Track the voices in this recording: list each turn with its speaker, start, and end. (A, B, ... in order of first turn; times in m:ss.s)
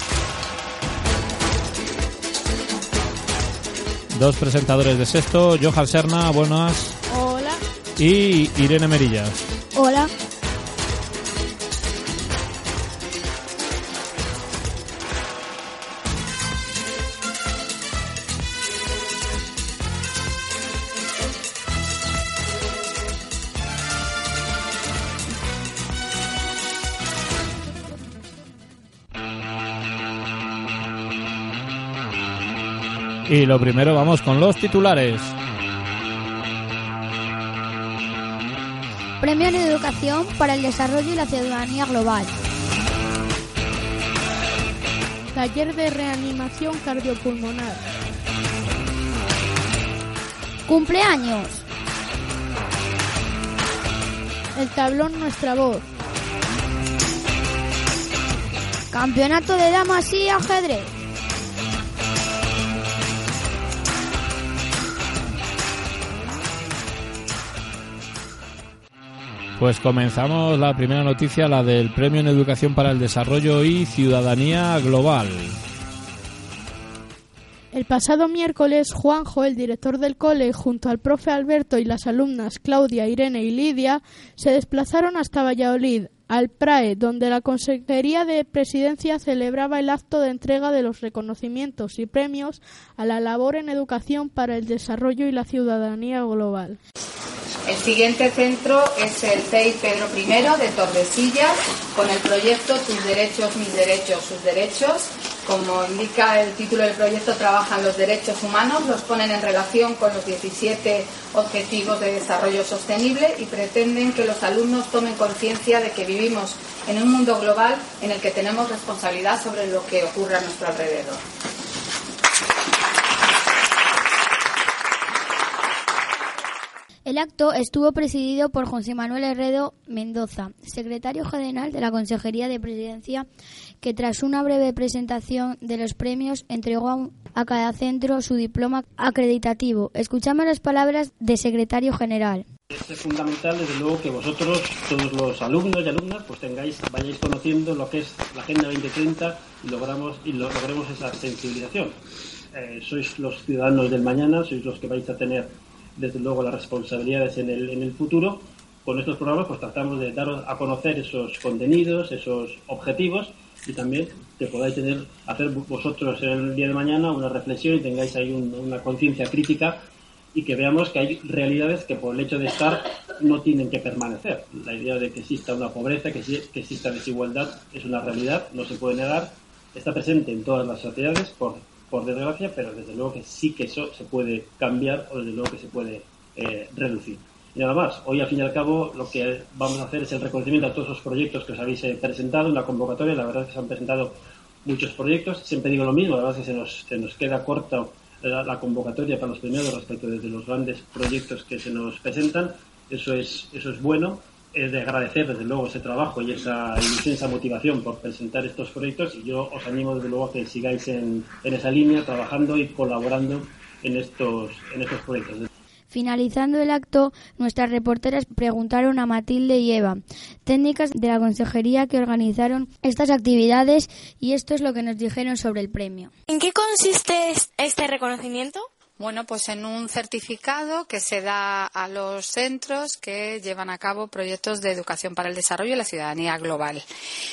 0:04.1-0:07.0 A
0:07.1-0:07.6 B
0:08.0-0:09.4 A
0:09.7-0:10.1 C
0:33.3-0:35.3 A
0:39.2-0:42.3 C
0:45.3-0:47.8 B
0:50.7-0:51.6 C
0:54.5-0:55.9 B
0:58.9-1:00.9 C
1:09.6-1:15.6 A
1:17.7-1:36.8 B
1:37.6-2:01.2 D
2:07.0-2:13.3 C
2:13.8-2:22.4 C
2:22.7-2:32.0 E
2:32.5-3:35.5 E
3:35.9-3:46.1 C
3:46.3-3:48.7 F
3:49.0-3:56.8 D